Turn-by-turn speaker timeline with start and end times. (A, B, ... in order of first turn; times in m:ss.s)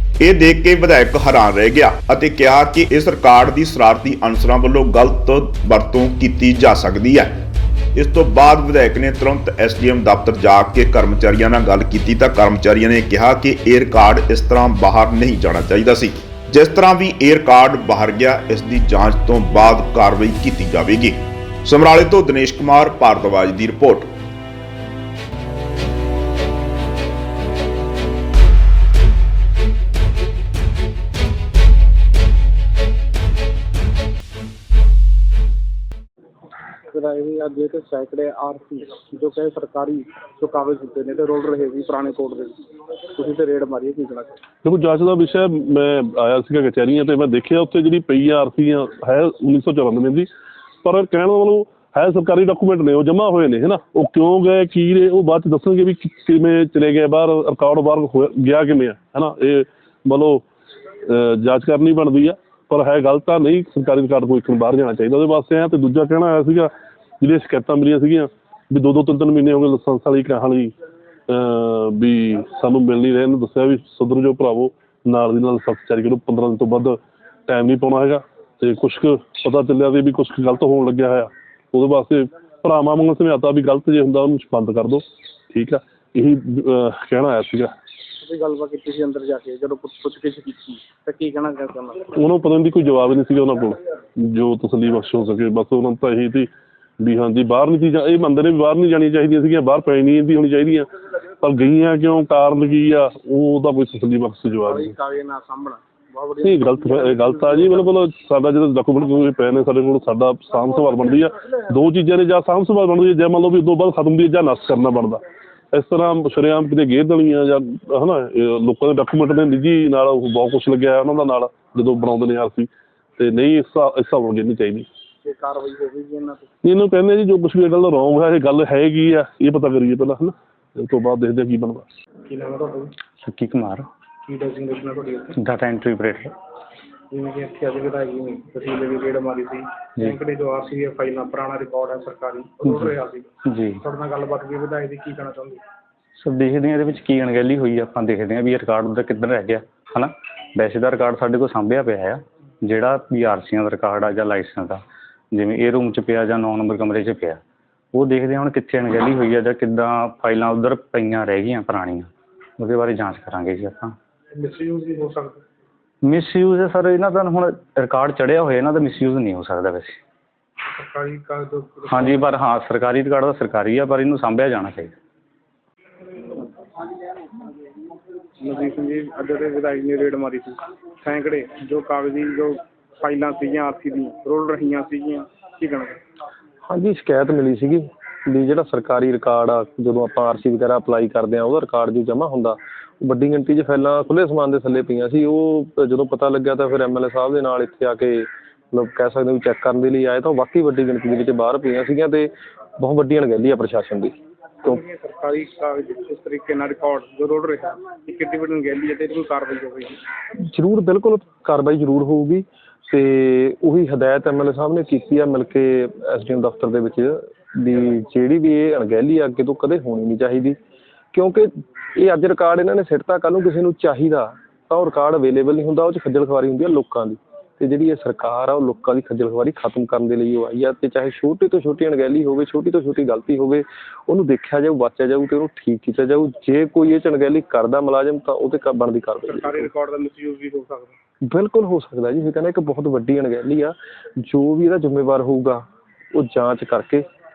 0:00.2-0:07.3 A
0:07.9-0:24.1 A
0:36.9-0:42.5 B
0:43.1-0:44.4 B
0:44.6-0:50.3 C
0:50.8-1:00.4 C
1:01.0-1:10.7 C
1:11.3-1:27.7 C
1:28.1-1:32.1 B
1:32.2-1:36.5 C
1:37.0-1:40.9 C
1:41.4-1:44.9 C
1:44.6-1:47.9 B
1:46.4-2:04.9 C
2:05.2-2:06.5 B
2:06.6-2:11.8 C
2:12.3-2:13.0 B
2:13.2-2:13.9 D
2:14.2-2:15.4 B
2:15.4-2:16.3 D
2:17.1-2:25.6 B
2:22.6-2:22.9 D
2:23.4-2:23.8 D
2:26.2-2:34.8 D
2:35.3-2:37.4 D
2:37.9-2:44.0 D
2:44.3-2:45.4 B
2:46.0-2:50.0 D
2:50.7-2:52.2 B
2:51.9-2:54.9 D
2:58.4-3:06.0 B
3:06.6-3:24.8 E
3:24.6-3:30.0 B
3:30.4-3:40.6 E
3:41.1-3:59.7 E
3:59.2-4:01.0 B
4:01.3-4:07.0 E